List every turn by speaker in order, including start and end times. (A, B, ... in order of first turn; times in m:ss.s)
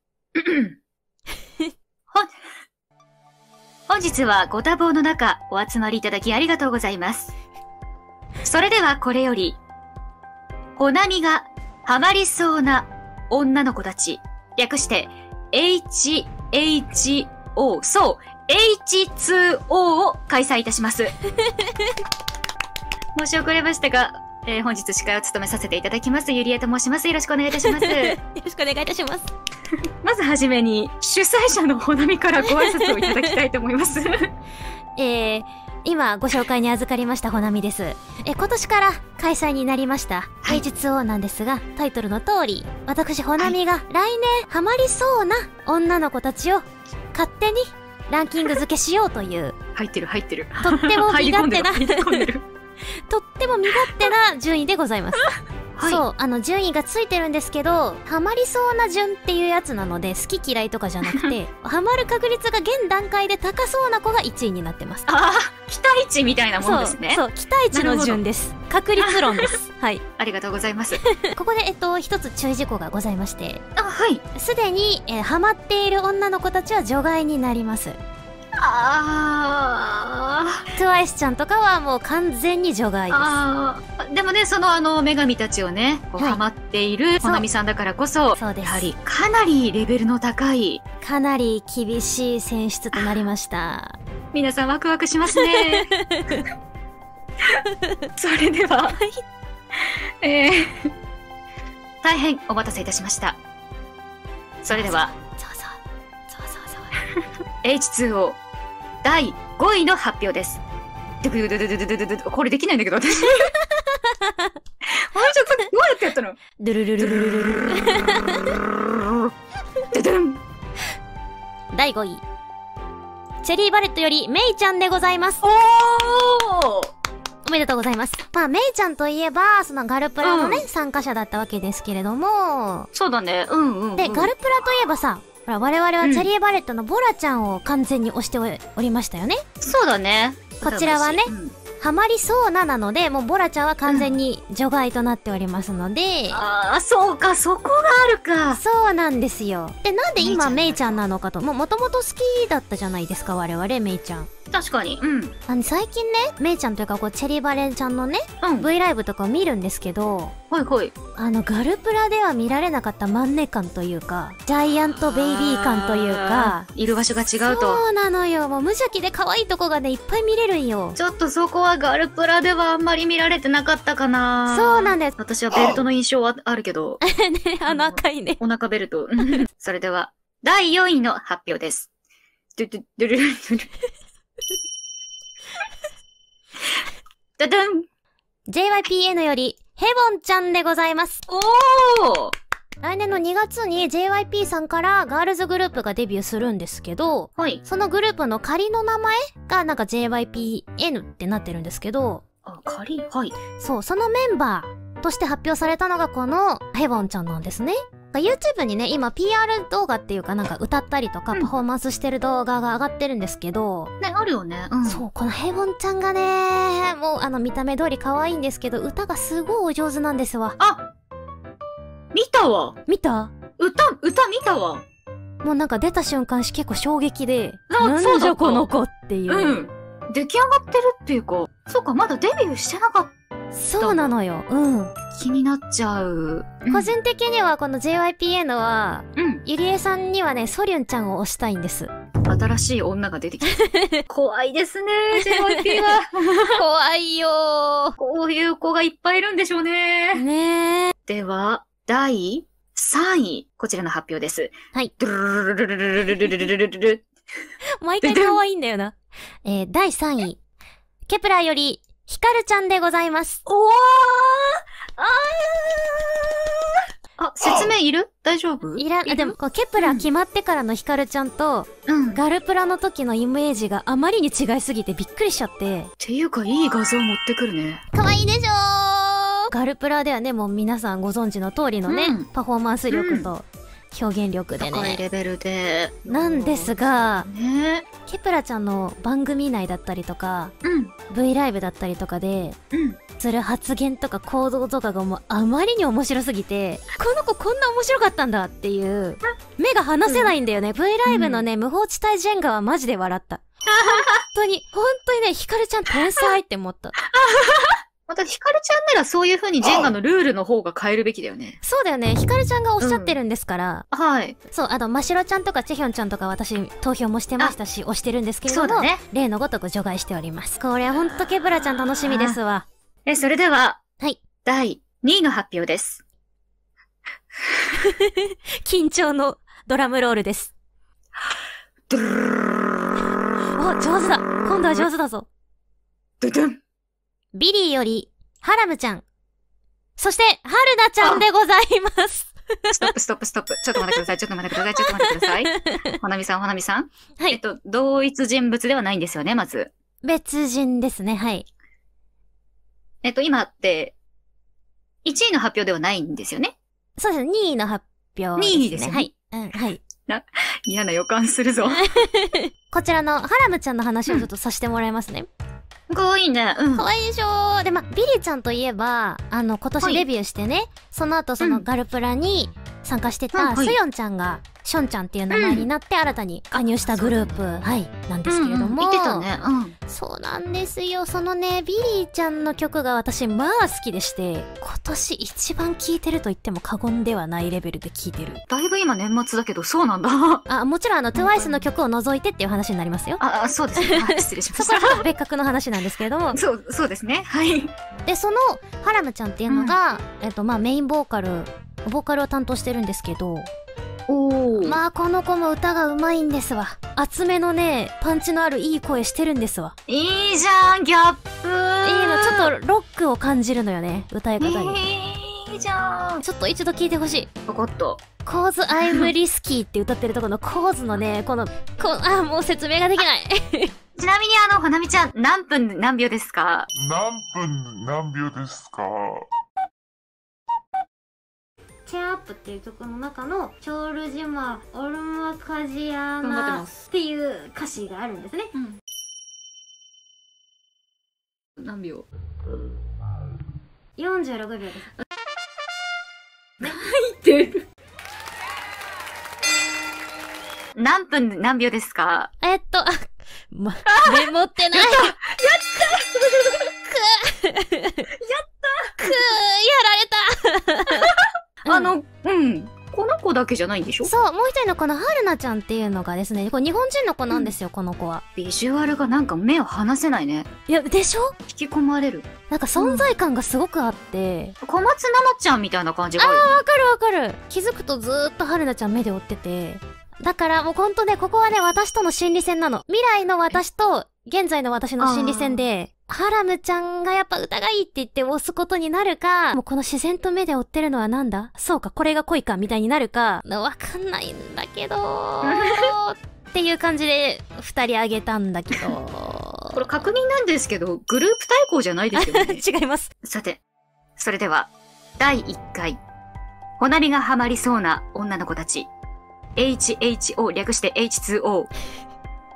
0:00.4-0:00.8 A
0:03.9-0:07.3 A
0:08.4-0:09.6 A
0:10.8-0:21.1 A
0:23.1-0:28.2 A
0:27.5-0:29.3 B
0:30.0-0:34.3 A
0:32.4-0:33.4 B
0:35.0-0:49.6 B
0:49.8-0:52.4 A
0:50.6-0:52.3 B
0:53.1-1:05.1 B
0:55.8-0:56.0 A
1:05.1-1:08.2 A
1:06.6-1:10.0 B
1:09.0-1:09.5 A
1:10.2-1:11.0 A
1:11.2-1:13.6 B
1:13.8-1:14.2 A
1:14.3-1:18.0 B
1:18.6-1:20.7 A
1:20.7-1:23.4 B
1:23.1-1:30.8 A
1:28.4-1:28.9 B
1:31.0-1:34.0 B
1:32.9-1:33.2 A
1:34.3-1:36.3 A
1:35.4-1:36.4 B
1:38.2-1:39.0 A
1:39.8-1:40.9 A
1:42.0-1:43.4 A
1:44.6-1:45.1 A
1:44.7-1:45.8 B
1:46.3-1:47.0 B
1:47.6-1:48.4 A
1:49.0-1:50.6 A
1:51.2-1:53.5 A
1:53.6-1:54.5 B
1:54.9-1:56.4 A
1:56.6-1:58.6 B
1:57.0-1:57.8 A
1:58.6-1:59.3 A
1:59.9-2:00.4 A
2:01.7-2:02.2 B
2:03.4-2:05.4 B
2:05.4-2:06.9 A
2:07.4-2:12.9 B
2:10.2-2:10.7 A
2:12.9-2:14.3 A
2:14.0-2:19.4 B
2:16.0-2:16.3 A
2:19.6-2:21.6 A
2:20.6-2:26.4 B
2:23.8-2:24.2 A
2:26.3-2:28.6 A
2:28.5-2:34.3 B
2:30.2-2:31.0 A
2:34.5-2:35.3 A
2:35.5-2:40.3 B
2:38.4-2:38.7 A
2:40.5-2:40.9 A
2:41.2-2:46.7 B
2:45.0-2:47.8 A
2:47.4-2:51.0 B
2:51.0-2:57.0 A
2:54.5-2:55.2 B
2:57.0-2:58.4 B
2:57.7-3:01.9 A
3:02.5-3:03.7 A
3:07.4-3:07.8 A
3:08.5-3:11.2 B
3:11.3-3:12.3 A
3:12.8-3:22.2 B
3:17.4-3:17.6 A
3:22.4-3:23.4 A
3:23.6-3:33.9 B
3:34.0-3:35.0 A
3:34.8-3:40.6 B
3:40.6-3:40.9 A
3:42.1-3:42.8 A
3:42.9-3:43.3 B
3:43.6-3:44.8 A
3:45.4-3:49.6 B
3:47.7-3:48.7 A
3:49.3-3:53.1 A
3:53.5-3:55.0 B
3:53.8-3:54.1 A
3:55.1-3:56.9 A
3:56.7-4:01.9 B
3:59.2-3:59.4 A
4:02.2-4:06.6 A
4:03.5-4:04.0 B
4:05.2-4:06.0 B
4:06.5-4:08.0 B
4:08.0-4:10.2 A
4:10.1-4:10.9 B
4:11.1-4:17.0 A
4:17.8-4:20.4 B
4:18.0-4:18.4 A
4:21.0-4:23.4 B
4:23.4-4:26.6 A
4:27.2-4:30.1 A
4:28.8-4:35.9 B
4:31.9-4:32.2 A
4:36.0-4:37.8 A
4:37.9-4:45.0 B
4:41.9-4:42.3 A
4:42.9-4:43.3 A
4:44.6-4:47.9 A
4:46.1-4:47.3 B
4:48.0-4:50.5 B
4:50.6-4:50.9 A
4:51.1-4:52.6 B
4:52.7-4:53.0 A
4:53.2-5:06.9 B
5:00.1-5:00.3 A
5:01.1-5:01.4 A
5:03.7-5:04.2 A
5:07.1-5:11.6 A
5:11.6-5:13.8 B
5:12.8-5:13.2 A
5:13.9-5:14.4 A
5:14.5-5:22.7 B
5:18.5-5:19.0 A
5:22.1-5:22.4 A
5:23.0-5:23.8 A
5:24.4-5:26.0 A
5:27.8-5:30.5 B
5:31.9-5:33.0 A
5:33.6-5:35.3 B
5:34.5-5:34.9 A
5:36.2-5:36.6 A
5:37.3-5:39.0 B
5:40.0-5:42.9 B
5:42.8-5:49.7 A
5:44.8-5:45.8 B
5:50.0-5:51.4 B
5:53.0-5:53.9 A
5:55.0-5:56.5 A
5:57.0-5:59.8 B
5:58.4-5:59.1 A
6:00.0-6:01.8 A
6:01.7-6:05.3 B
6:05.9-6:06.9 A
6:06.7-6:19.2 B
6:11.4-6:11.7 A
6:13.3-6:13.8 A
6:15.3-6:15.7 A
6:16.5-6:17.3 A
6:18.2-6:19.8 A
6:19.9-6:28.4 B
6:28.5-6:30.4 A
6:30.5-6:33.2 B
6:31.1-6:31.7 A
6:33.2-6:35.0 A
6:33.8-6:36.4 B
6:36.3-6:37.7 A
6:38.0-6:43.5 B
6:39.5-6:39.8 A
6:44.1-6:44.8 A
6:44.6-6:49.7 B
6:49.9-6:52.5 A
6:51.8-6:54.8 B
6:54.4-6:56.2 A
6:56.2-6:57.3 B
6:57.5-6:58.0 A
6:58.2-7:03.7 B
6:58.8-6:59.1 A
7:04.0-7:06.7 A
7:06.8-7:09.2 C
7:11.8-7:18.5 B
7:16.2-7:16.7 A
7:21.6-7:22.0 A
7:24.0-7:24.9 B
7:26.6-7:27.6 A
7:30.8-7:32.3 A
7:32.4-7:35.1 B
7:33.8-7:36.7 A
7:36.9-7:38.1 B
7:38.2-7:39.1 A
7:39.0-7:41.1 B
7:40.9-7:44.1 A
7:41.7-7:41.9 B
7:44.0-7:48.2 B
7:48.4-7:50.5 A
7:50.7-7:51.3 B
7:51.5-7:53.1 A
7:52.5-7:54.5 B
7:54.6-7:56.6 A
7:56.2-8:19.8 B
8:05.0-8:05.6 A
8:15.4-8:15.9 A
8:19.7-8:22.6 A
8:22.1-8:23.1 B
8:23.2-8:23.6 A
8:24.2-8:26.0 A
8:26.8-8:28.9 A
8:29.6-8:31.7 A